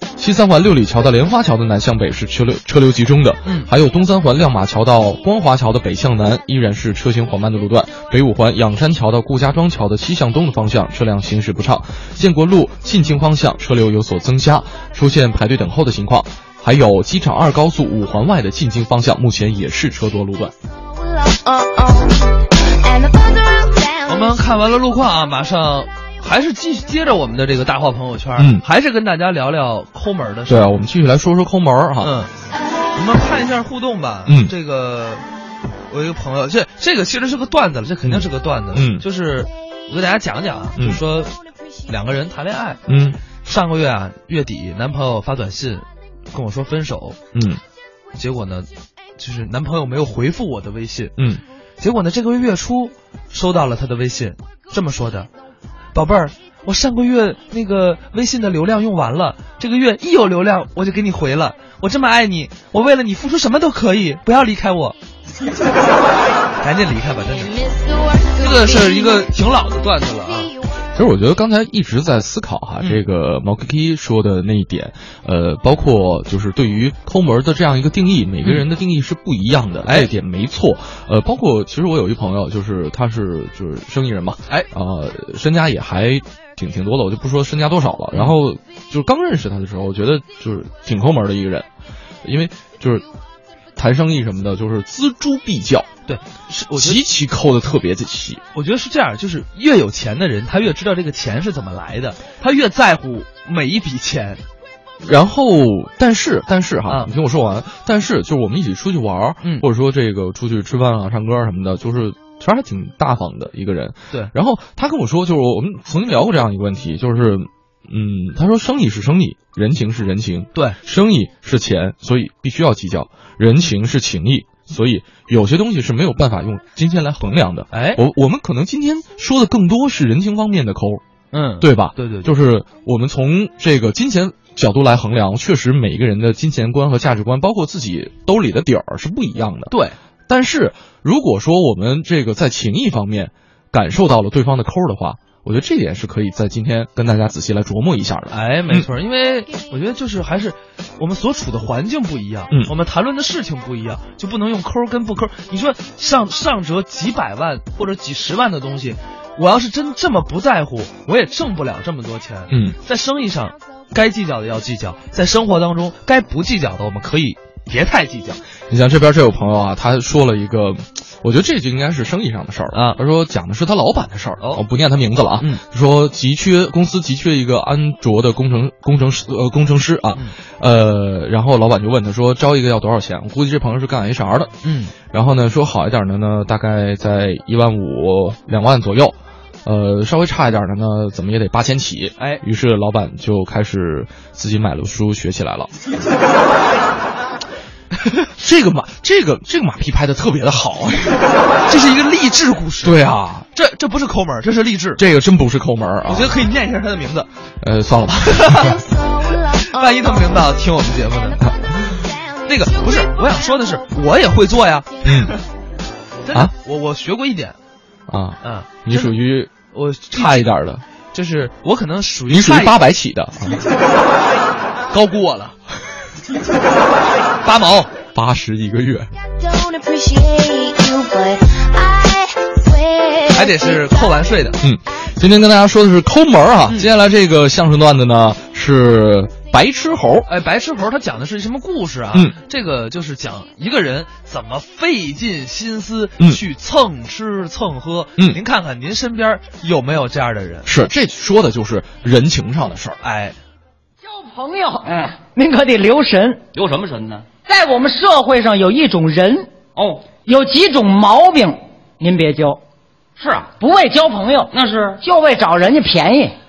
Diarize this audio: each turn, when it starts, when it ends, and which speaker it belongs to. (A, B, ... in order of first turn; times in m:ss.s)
0:00.2-0:20.5 A
0:03.4-0:03.7 B
0:20.8-0:24.6 C
0:24.1-0:30.7 B
0:28.4-0:28.6 A
0:30.5-0:32.1 A
0:32.0-0:32.3 B
0:33.0-0:35.2 B
0:34.3-0:34.5 A
0:35.9-0:41.3 B
0:38.1-0:39.0 A
0:41.9-0:42.8 B
0:42.9-0:43.2 A
0:43.4-0:47.2 B
0:47.3-0:47.6 A
0:48.2-0:51.1 B
0:51.8-0:55.3 B
0:55.9-1:05.0 B
1:06.6-1:07.5 B
1:07.5-1:09.3 C
1:08.4-1:10.5 B
1:11.0-1:31.7 A
1:32.2-1:33.0 A
1:33.8-1:35.9 A
1:36.1-1:37.0 B
1:36.8-1:38.4 A
1:38.5-1:44.4 B
1:45.0-2:11.0 A
2:07.7-2:08.0 B
2:11.3-2:12.3 B
2:11.6-2:19.8 A
2:19.7-2:20.0 B
2:20.3-2:28.9 A
2:28.3-2:48.4 B
2:42.5-2:42.8 A
2:48.7-3:15.7 A
2:52.7-2:53.0 B
3:04.6-3:04.9 B
3:18.4-3:21.2 A
3:21.7-3:23.0 B
3:22.8-3:23.5 A
3:23.5-3:25.0 B
3:25.0-3:26.4 A
3:26.1-3:27.3 B
3:27.6-3:28.7 A
3:28.3-3:28.8 B
3:28.8-3:34.0 C
3:29.7-3:31.4 B
3:32.5-3:35.4 B
3:35.0-3:35.3 A
3:36.2-3:37.6 B
3:38.1-3:39.6 A
3:38.4-3:39.1 B
3:39.7-3:40.5 B
3:40.1-3:40.8 A
3:41.1-3:42.8 B
3:42.3-3:43.6 A
3:44.9-3:45.6 B
3:47.4-3:47.9 B
3:48.2-3:49.1 A
3:49.4-3:54.3 C
3:53.3-3:54.6 B
3:54.6-4:00.3 A
4:00.3-4:10.8 B
4:10.7-4:13.0 A
4:13.0-4:13.4 B
4:14.0-4:16.4 D
4:14.8-4:15.2 E
4:16.5-4:17.3 E
4:17.4-4:19.5 D
4:19.8-4:20.1 E
4:20.2-4:22.6 D
4:23.2-4:23.5 E
4:23.6-4:26.4 D
4:24.5-4:25.0 E